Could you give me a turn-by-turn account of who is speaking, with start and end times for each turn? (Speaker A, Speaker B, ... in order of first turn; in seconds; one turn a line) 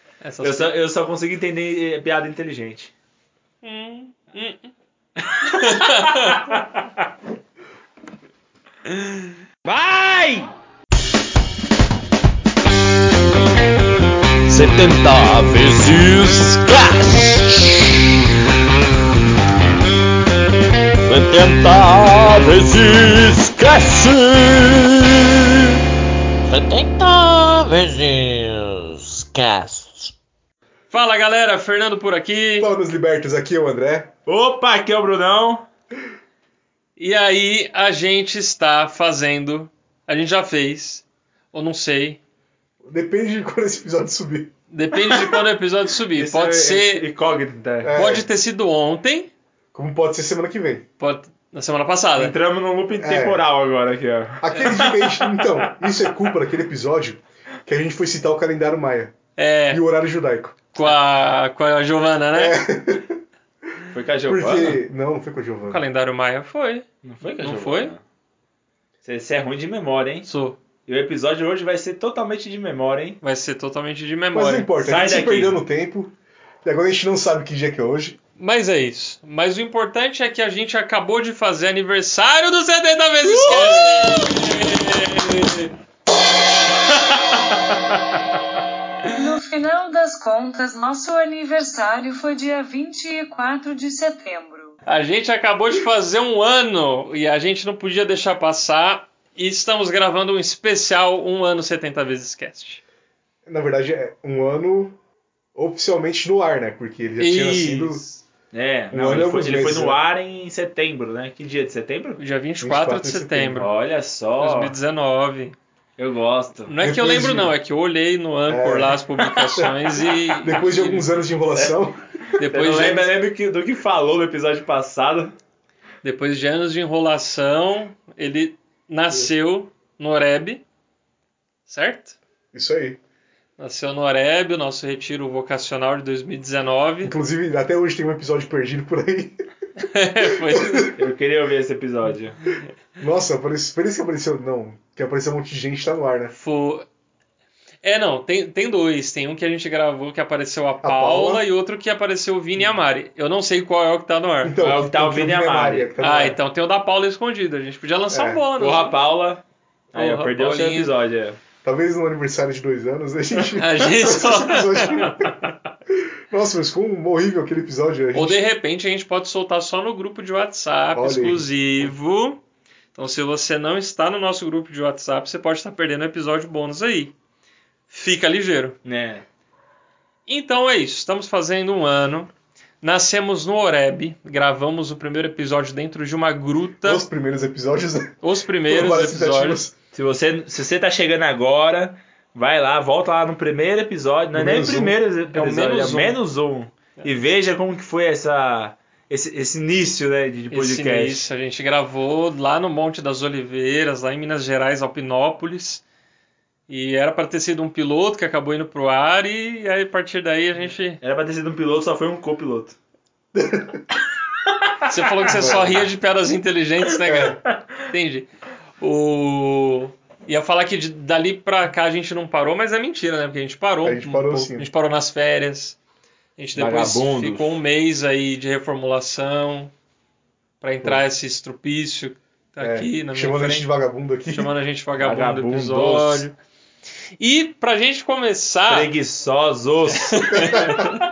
Speaker A: 0.2-0.8
Speaker B: 0.4-2.9
Speaker A: 3.6-4.7
Speaker B: 5.2-7.0
Speaker A: 5.4-6.5
Speaker B: 8.9-10.5
Speaker C: 14.5-17.8
Speaker C: 21.1-25.5
Speaker C: 26.5-30.1
Speaker A: 30.9-32.7
Speaker D: 32.6-34.1
Speaker B: 34.2-35.7
Speaker A: 37.0-42.2
Speaker D: 42.8-44.5
Speaker A: 44.7-47.0
Speaker B: 46.1-47.9
Speaker D: 47.8-48.3
Speaker A: 47.9-49.3
Speaker D: 49.7-50.9
Speaker A: 51.0-52.3
Speaker B: 52.2-55.1
Speaker D: 53.0-53.4
Speaker D: 54.4-59.1
Speaker A: 59.4-59.8
Speaker D: 59.7-60.6
Speaker A: 60.7-62.6
Speaker D: 62.3-63.2
Speaker B: 63.9-64.8
Speaker D: 64.3-65.8
Speaker A: 65.7-66.9
Speaker B: 67.0-68.0
Speaker A: 67.4-67.9
Speaker B: 69.0-70.3
Speaker A: 70.2-70.6
Speaker B: 70.8-73.2
Speaker A: 73.2-74.7
Speaker D: 74.3-76.1
Speaker B: 74.8-75.6
Speaker D: 76.6-78.2
Speaker A: 78.4-85.7
Speaker D: 83.4-84.2
Speaker E: 89.0-94.8
Speaker A: 94.8-102.8
Speaker D: 103.5-105.0
Speaker D: 105.5-108.0
Speaker A: 107.2-108.1
Speaker B: 108.5-112.2
Speaker D: 108.9-110.0
Speaker A: 112.2-113.7
Speaker D: 112.6-113.7
Speaker B: 113.5-114.7
Speaker A: 114.4-115.5
Speaker B: 116.0-116.7
Speaker A: 116.7-121.1
Speaker D: 116.8-117.5
Speaker D: 118.5-119.8
Speaker D: 120.4-122.4
Speaker A: 122.4-123.1
Speaker B: 122.4-125.3
Speaker A: 126.0-130.6
Speaker A: 131.7-132.2
Speaker D: 132.5-133.0
Speaker A: 133.6-137.1
Speaker D: 137.0-139.4
Speaker A: 139.8-140.9
Speaker D: 140.2-140.9
Speaker B: 140.9-142.4
Speaker D: 143.0-146.3
Speaker A: 146.3-146.8
Speaker A: 147.8-154.6
Speaker D: 150.8-151.4
Speaker D: 154.4-156.4
Speaker B: 154.6-155.9
Speaker A: 156.0-159.0
Speaker D: 158.1-158.4
Speaker B: 158.6-161.4
Speaker A: 159.9-160.9
Speaker D: 161.6-168.4
Speaker A: 163.5-165.3
Speaker A: 168.1-172.4
Speaker D: 170.9-171.5
Speaker A: 172.9-177.1
Speaker A: 177.9-178.8
Speaker B: 178.8-179.2
Speaker A: 180.3-182.3
Speaker A: 182.8-187.0
Speaker D: 186.8-188.1
Speaker A: 188.2-189.6
Speaker D: 188.7-189.7
Speaker B: 189.9-201.2
Speaker D: 194.3-195.0
Speaker A: 195.3-196.2
Speaker A: 200.5-205.8
Speaker A: 206.7-211.0
Speaker B: 210.6-212.8
Speaker D: 213.3-213.8
Speaker A: 214.8-218.3
Speaker D: 215.3-215.9
Speaker D: 217.0-217.4
Speaker A: 218.8-225.8
Speaker D: 223.8-224.7
Speaker A: 226.4-229.7
Speaker B: 226.5-227.6
Speaker A: 230.6-233.7
Speaker D: 232.6-234.5
Speaker A: 234.3-236.3
Speaker B: 235.0-236.2
Speaker A: 237.2-238.9
Speaker B: 238.7-240.9
Speaker A: 240.1-240.9
Speaker D: 240.3-240.8